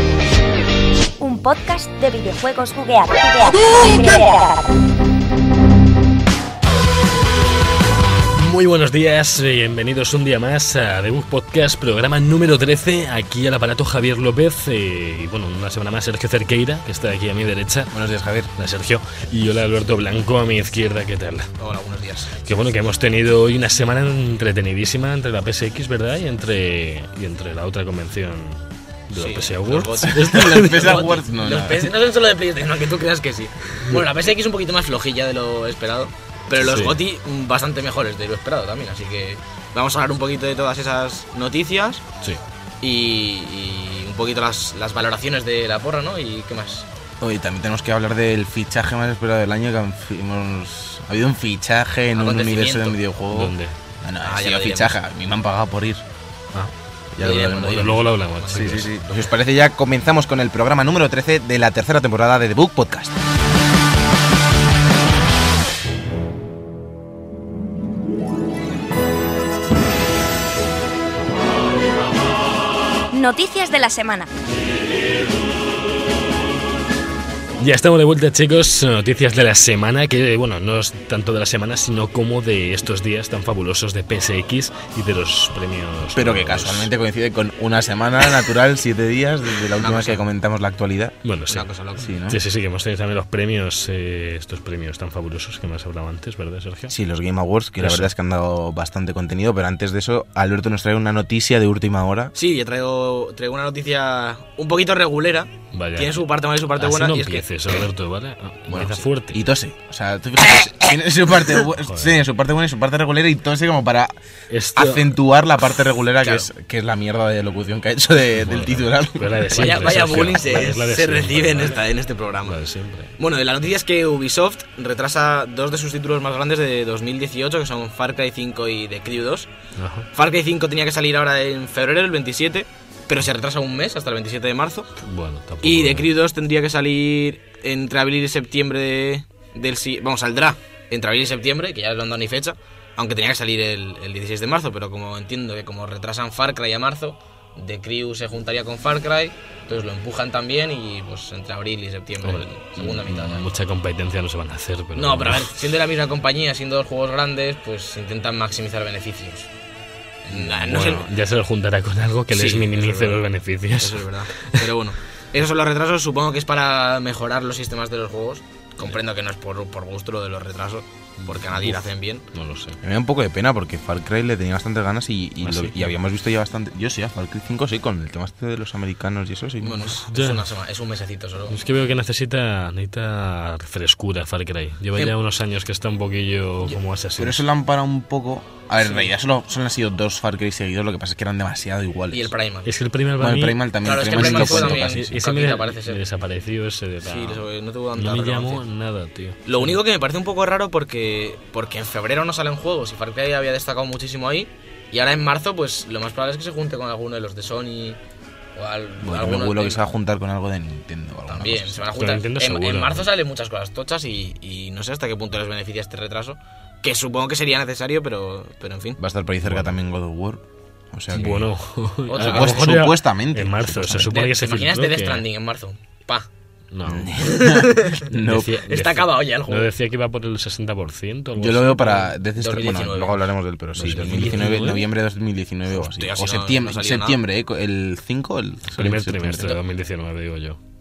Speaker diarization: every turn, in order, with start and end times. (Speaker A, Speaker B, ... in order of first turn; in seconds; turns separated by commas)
Speaker A: 1.2-4.7, Speaker B: 8.3-17.9, Speaker C: 17.9-18.5, Speaker B: 18.6-21.5, Speaker D: 21.6-22.4, Speaker B: 22.4-31.0, Speaker D: 29.1-42.0, Speaker C: 30.0-31.9, Speaker B: 36.6-37.0, Speaker D: 42.8-46.9, Speaker C: 47.2-56.0, Speaker D: 52.1-53.0, Speaker B: 53.3-53.8, Speaker D: 54.2-55.0, Speaker C: 57.1-58.0, Speaker D: 57.2-59.0, Speaker B: 57.3-58.9, Speaker C: 58.5-63.2, Speaker A: 73.1-74.3, Speaker B: 77.6-86.9, Speaker C: 86.1-91.2, Speaker D: 89.8-90.2, Speaker B: 91.2-91.7, Speaker D: 91.5-92.1, Speaker C: 92.0-92.4, Speaker B: 92.3-96.9, Speaker C: 96.9-102.3, Speaker B: 97.8-98.1, Speaker D: 102.3-107.8, Speaker B: 105.7-109.4, Speaker C: 108.7-114.1, Speaker B: 111.8-112.2, Speaker B: 114.5-115.1, Speaker C: 114.7-119.8, Speaker D: 116.2-116.5, Speaker B: 118.3-121.9, Speaker D: 119.5-122.6, Speaker B: 122.4-123.1, Speaker D: 123.2-129.5, Speaker B: 129.8-130.1, Speaker D: 130.1-134.9, Speaker B: 135.0-136.1, Speaker D: 135.6-153.6, Speaker B: 152.2-155.5, Speaker D: 154.9-159.5, Speaker D: 160.2-161.1, Speaker B: 160.4-164.7, Speaker D: 162.3-163.2, Speaker D: 163.8-172.2, Speaker B: 171.2-172.8, Speaker C: 172.8-180.0, Speaker B: 175.4-175.9, Speaker D: 179.6-181.6, Speaker B: 180.1-180.5, Speaker B: 181.5-187.4, Speaker C: 187.2-192.3, Speaker D: 188.8-189.1, Speaker D: 192.1-192.7, Speaker B: 192.6-197.4, Speaker C: 193.2-195.2, Speaker D: 193.8-196.0, Speaker D: 197.0-198.6, Speaker B: 197.9-199.7, Speaker D: 199.4-208.0, Speaker D: 208.6-209.8, Speaker C: 209.0-211.8, Speaker D: 211.3-219.0, Speaker B: 211.9-213.1, Speaker C: 219.0-221.5, Speaker B: 219.4-219.7, Speaker B: 221.1-225.2, Speaker D: 222.1-222.7, Speaker C: 222.2-224.1, Speaker D: 223.9-226.3, Speaker B: 226.7-227.1, Speaker C: 226.8-228.6, Speaker D: 227.2-228.1, Speaker B: 228.1-232.1, Speaker D: 228.6-229.7, Speaker C: 231.3-239.6, Speaker D: 232.3-233.3, Speaker B: 233.8-234.9, Speaker D: 235.7-237.2, Speaker B: 238.7-240.6